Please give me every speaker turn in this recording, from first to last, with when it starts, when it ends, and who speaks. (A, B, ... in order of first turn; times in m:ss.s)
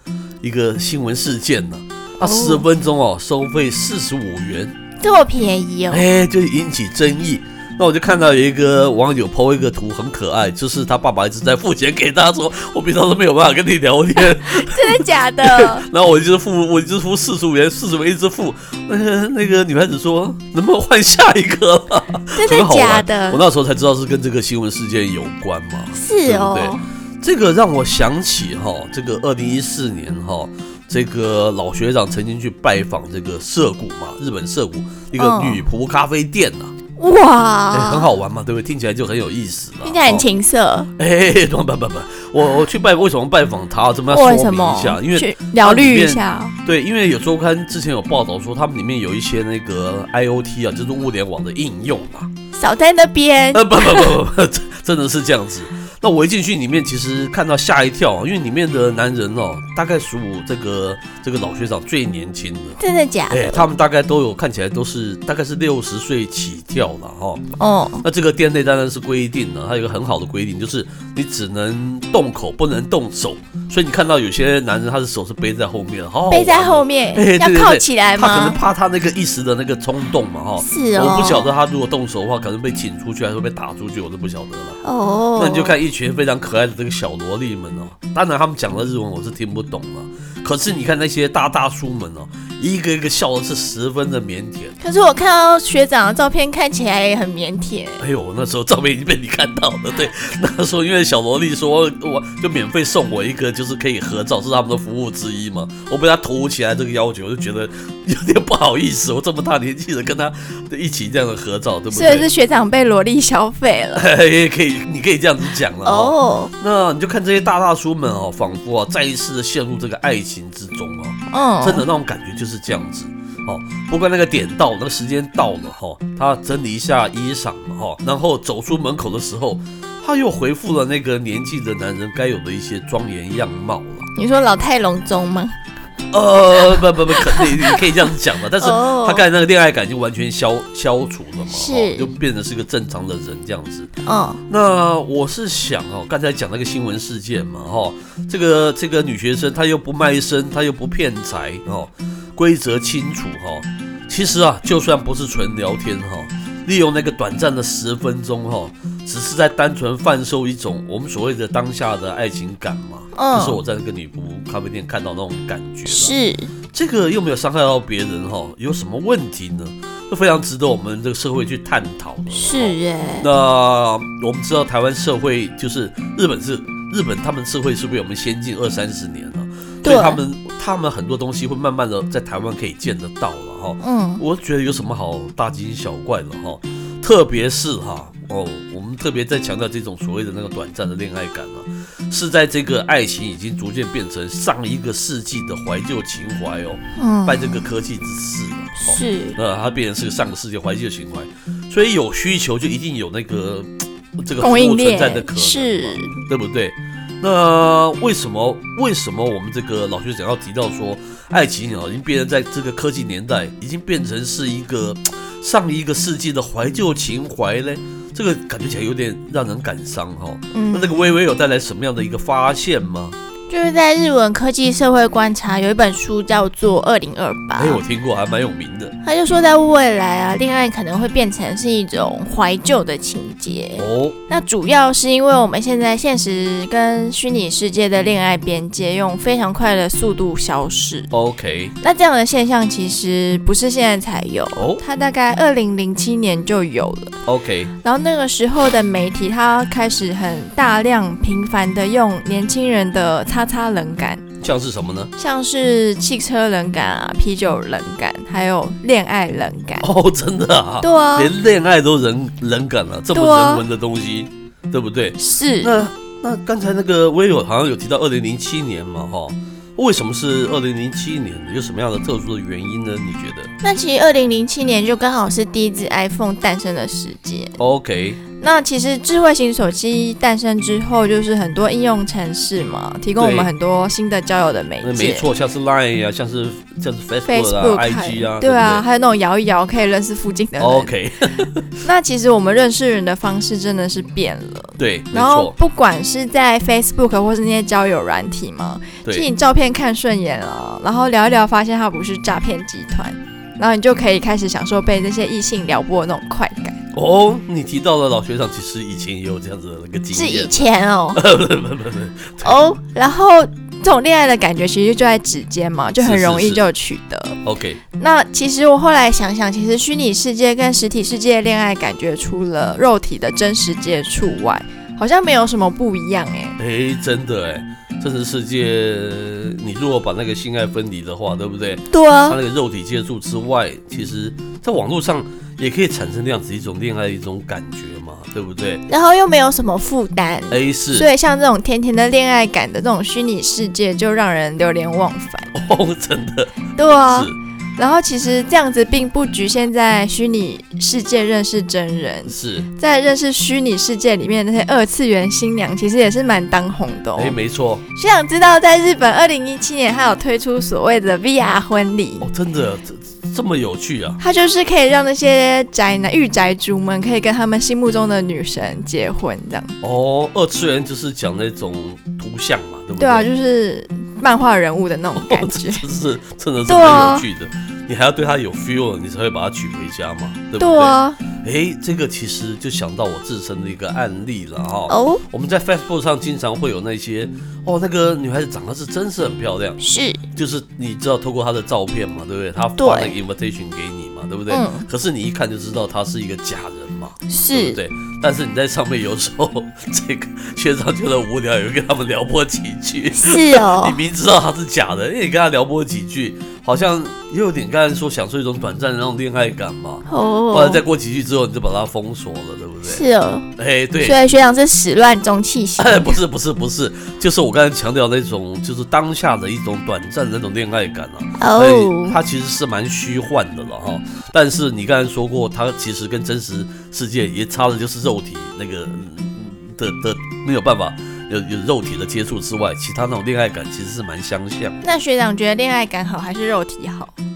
0:00.4-0:04.7 A
0:02.2-0:02.6 B
0:05.0-0:06.0 B
0:05.9-0:36.7 A
0:14.3-0:15.8 B
0:22.4-0:23.4 B
0:25.9-0:26.8 B
0:35.2-0:35.6 B
0:37.0-0:38.0 B
0:37.7-0:40.2 A
0:39.8-0:40.9 B
0:41.0-0:52.3 A
0:44.1-0:46.5 B
0:52.6-0:54.0 B
0:53.5-1:07.4 A
1:02.8-1:03.6 B
1:07.6-1:08.0 B
1:08.0-1:24.8 A
1:16.3-1:18.6 B
1:20.6-1:21.5 B
1:24.8-1:25.7 B
1:25.4-1:34.7 A
1:34.8-1:38.0 B
1:38.0-1:52.3 A
1:51.9-1:54.1 B
1:53.9-2:14.1 A
1:55.8-1:56.5 B
2:01.3-2:01.8 B
2:14.2-2:15.5 B
2:16.1-2:23.9 A
2:18.6-2:19.2 B
2:21.5-2:22.1 B
2:24.0-2:24.4 B
2:24.5-2:46.2 A
2:43.1-2:43.6 B
2:45.9-2:46.5 B
2:46.7-3:43.2 A
2:52.3-2:53.2 B
2:59.8-3:00.2 B
3:03.8-3:04.2 B
3:17.0-3:17.5 B
3:18.8-3:19.4 B
3:24.4-3:26.1 B
3:40.5-3:40.9 B
3:43.5-3:47.8 B
3:47.6-3:48.9 A
3:49.0-4:01.1 B
3:53.8-3:54.2 A
4:01.1-4:01.7 A
4:01.8-4:07.1 B
4:04.5-4:04.8 A
4:07.2-4:07.7 A
4:07.8-4:14.2 B
4:14.4-4:15.1 A
4:15.2-4:19.8 B
4:19.8-4:33.5 A
4:20.8-4:21.3 B
4:23.1-4:23.6 B
4:25.2-4:25.8 B
4:33.6-4:37.5 B
4:37.6-4:38.2 A
4:38.4-4:45.3 B
4:43.2-4:43.5 A
4:44.8-4:48.8 A
4:47.2-4:50.9 B
4:50.6-4:51.6 A
4:51.8-5:06.8 B
4:54.8-4:55.5 A
5:06.9-5:12.7 A
5:10.1-5:11.2 B
5:12.4-5:17.4 B
5:16.0-5:16.6 A
5:17.4-5:17.8 A
5:18.0-5:26.6 B
5:26.6-5:38.8 A
5:31.9-5:32.3 B
5:38.9-5:45.5 B
5:40.5-5:41.1 A
5:45.5-5:47.3 A
5:46.8-5:57.4 B
5:52.2-5:52.7 A
5:57.2-5:57.8 A
5:57.9-6:02.3 B
6:02.2-6:04.2 A
6:04.2-6:09.7 B
6:09.8-6:13.3 A
6:13.0-6:15.8 B
6:15.2-6:29.8 A
6:16.7-6:17.2 B
6:20.6-6:21.2 B
6:24.9-6:25.2 B
6:29.8-6:30.2 B
6:30.3-6:53.0 A
6:32.8-6:33.1 B
6:34.5-6:34.8 B
6:37.3-6:37.8 B
6:43.2-6:43.9 B
6:50.1-6:50.8 B
6:52.8-6:53.4 B
6:53.6-6:54.2 A
6:54.0-6:56.1 B
6:55.8-7:14.8 A
7:01.4-7:02.2 B
7:14.8-7:17.1 B